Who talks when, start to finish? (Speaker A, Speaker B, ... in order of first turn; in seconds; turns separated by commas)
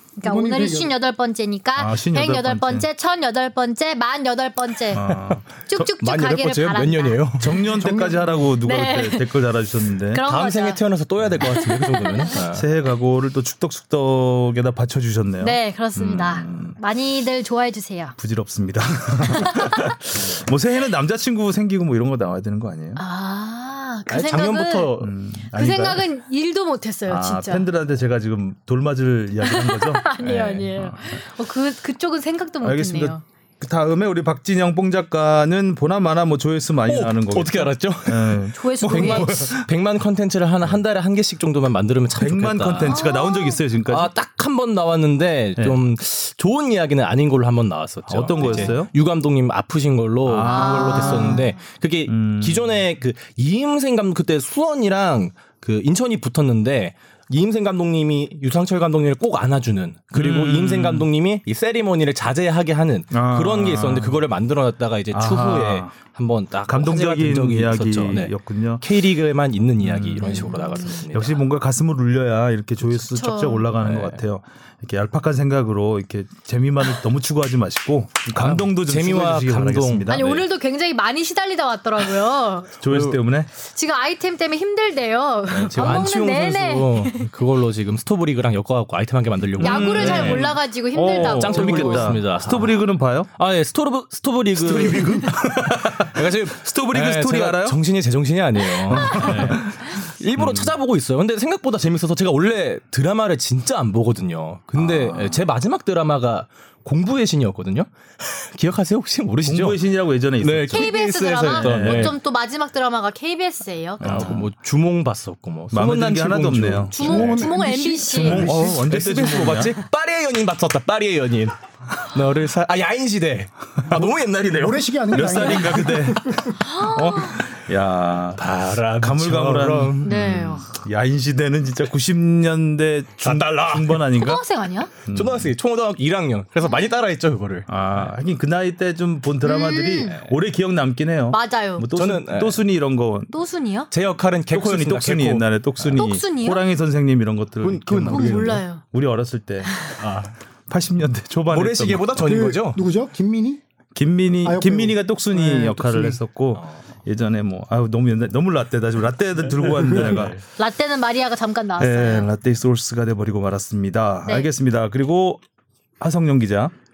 Speaker A: 0.2-5.0, Speaker B: 0.2-0.9, Speaker C: 1.8-2.9, Speaker C: 4.9-5.9, Speaker D: 5.0-5.4, Speaker A: 5.7-7.6, Speaker D: 6.0-7.7, Speaker C: 7.4-10.2, Speaker B: 7.7-8.5, Speaker A: 8.6-9.4, Speaker A: 10.1-10.8, Speaker D: 10.2-12.6, Speaker A: 11.4-12.4, Speaker C: 12.5-16.8, Speaker A: 15.4-18.2, Speaker C: 18.2-23.0, Speaker A: 19.3-19.9, Speaker D: 20.1-20.5, Speaker A: 22.9-24.9, Speaker D: 24.1-25.1, Speaker C: 25.0-26.0, Speaker A: 25.5-27.7, Speaker C: 27.1-31.2, Speaker A: 29.4-33.2, Speaker C: 32.6-39.7, Speaker D: 36.9-43.0, Speaker A: 38.5-39.3, Speaker C: 42.2-44.1, Speaker A: 42.9-43.6, Speaker D: 43.9-71.4, Speaker C: 48.1-48.9, Speaker A: 48.4-48.7, Speaker C: 50.2-51.4, Speaker A: 50.4-51.6, Speaker C: 52.1-52.8, Speaker C: 60.1-61.1, Speaker C: 63.1-64.2, Speaker C: 65.1-65.9, Speaker C: 66.7-68.8, Speaker C: 69.8-70.6, Speaker A: 70.2-71.0, Speaker C: 71.1-80.3, Speaker A: 73.1-73.7, Speaker D: 73.8-74.2, Speaker D: 78.3-80.4, Speaker A: 80.1-82.8, Speaker C: 82.8-83.5, Speaker D: 82.9-83.2, Speaker A: 83.5-87.3, Speaker D: 85.5-92.8, Speaker C: 89.6-93.3, Speaker A: 89.6-92.2, Speaker D: 93.3-112.2, Speaker C: 94.5-97.8, Speaker C: 98.9-99.8, Speaker A: 98.9-99.3, Speaker C: 100.3-100.7, Speaker C: 104.8-105.4, Speaker C: 109.4-112.1, Speaker A: 110.7-114.3, Speaker C: 114.0-114.5, Speaker D: 114.0-117.5, Speaker C: 115.7-117.5, Speaker A: 116.9-118.5, Speaker B: 117.0-118.8, Speaker C: 118.1-119.7, Speaker D: 118.3-125.9, Speaker B: 124.0-126.5, Speaker C: 125.1-128.4, Speaker A: 126.6-127.4, Speaker D: 128.4-130.1, Speaker C: 129.0-134.4, Speaker A: 130.0-130.7, Speaker D: 133.2-134.0, Speaker A: 134.1-134.9, Speaker C: 135.1-135.5, Speaker D: 135.1-138.1, Speaker C: 137.7-143.3, Speaker A: 139.4-140.2, Speaker D: 140.1-140.3, Speaker A: 141.3-141.8, Speaker D: 141.9-142.6, Speaker A: 143.3-143.9, Speaker D: 143.9-146.1, Speaker C: 144.5-149.9, Speaker A: 145.9-146.6, Speaker D: 147.6-148.6, Speaker A: 148.1-148.8, Speaker A: 149.6-150.0, Speaker D: 149.8-150.3, Speaker C: 150.7-152.4, Speaker D: 151.5-152.8, Speaker B: 152.2-153.6, Speaker C: 153.9-160.4, Speaker B: 154.4-156.2, Speaker D: 159.5-160.4, Speaker A: 160.6-162.3, Speaker C: 161.8-165.4, Speaker A: 164.2-164.5, Speaker C: 166.0-166.7